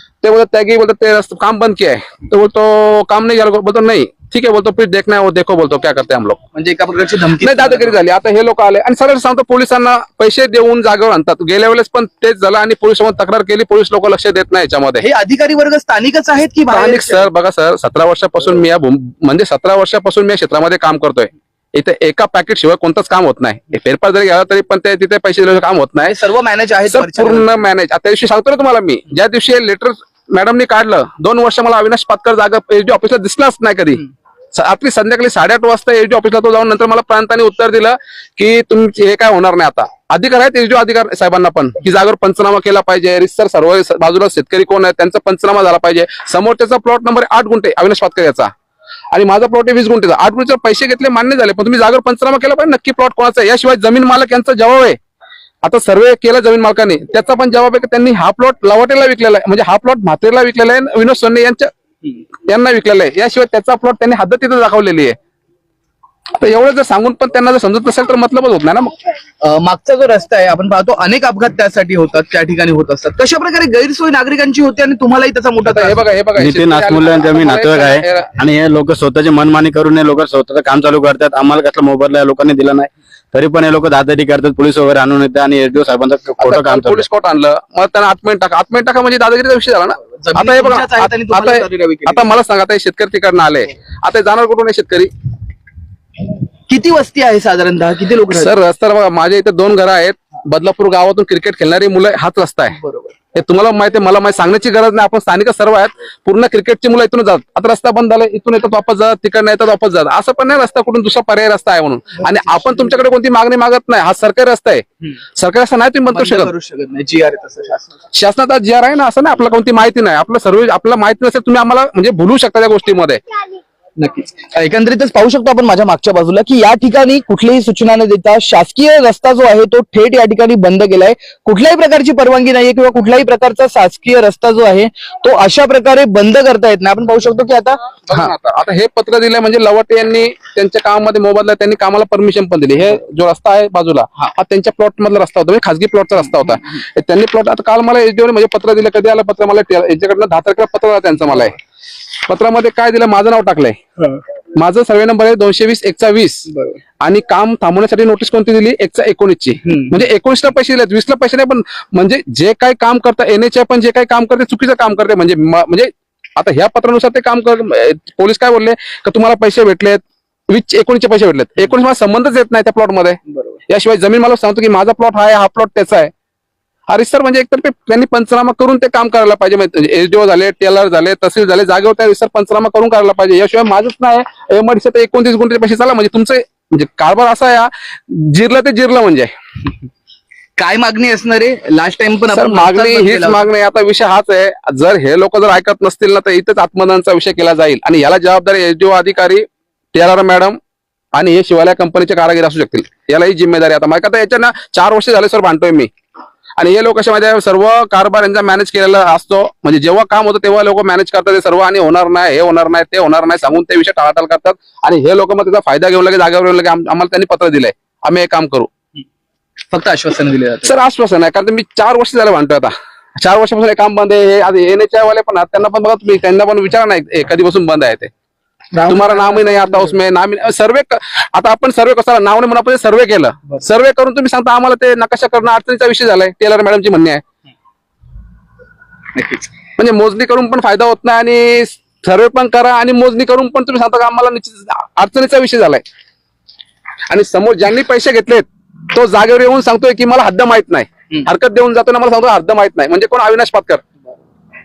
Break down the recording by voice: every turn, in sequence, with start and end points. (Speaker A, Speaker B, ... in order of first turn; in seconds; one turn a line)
Speaker A: 0.2-6.4
Speaker B: 6.5-8.0
Speaker A: 7.4-15.0
Speaker B: 15.0-17.3
Speaker A: 16.7-26.1
Speaker B: 26.1-27.4
Speaker A: 26.9-48.5
Speaker A: 49.1-55.0
Speaker A: 55.6-61.7
Speaker A: 62.5-65.2
Speaker A: 66.4-68.9
Speaker B: 69.4-76.0
Speaker A: 75.7-78.3
Speaker C: 76.3-87.0
Speaker A: 86.4-95.1
Speaker B: 90.2-92.3
Speaker B: 96.7-98.5
Speaker A: 98.3-102.7
Speaker B: 102.7-103.1
Speaker A: 103.3-114.8
Speaker A: 115.4-116.5
Speaker B: 116.1-118.0
Speaker A: 118.1-123.2
Speaker B: 124.0-137.8
Speaker A: 138.1-151.5
Speaker A: 152.3-153.8
Speaker A: 154.6-156.5
Speaker B: 156.5-156.8
Speaker A: 157.0-176.1
Speaker B: 159.6-160.0
Speaker B: 173.3-173.6
Speaker A: 176.9-189.3
Speaker B: 190.6-193.5
Speaker A: 192.3-200.6
Speaker A: 201.2-205.9
Speaker A: 206.6-218.7
Speaker B: 219.7-220.7
Speaker A: 220.6-228.1
Speaker B: 228.7-230.0
Speaker A: 228.9-237.2
Speaker B: 239.2-239.5
Speaker A: 239.8-245.8
Speaker A: 247.1-253.8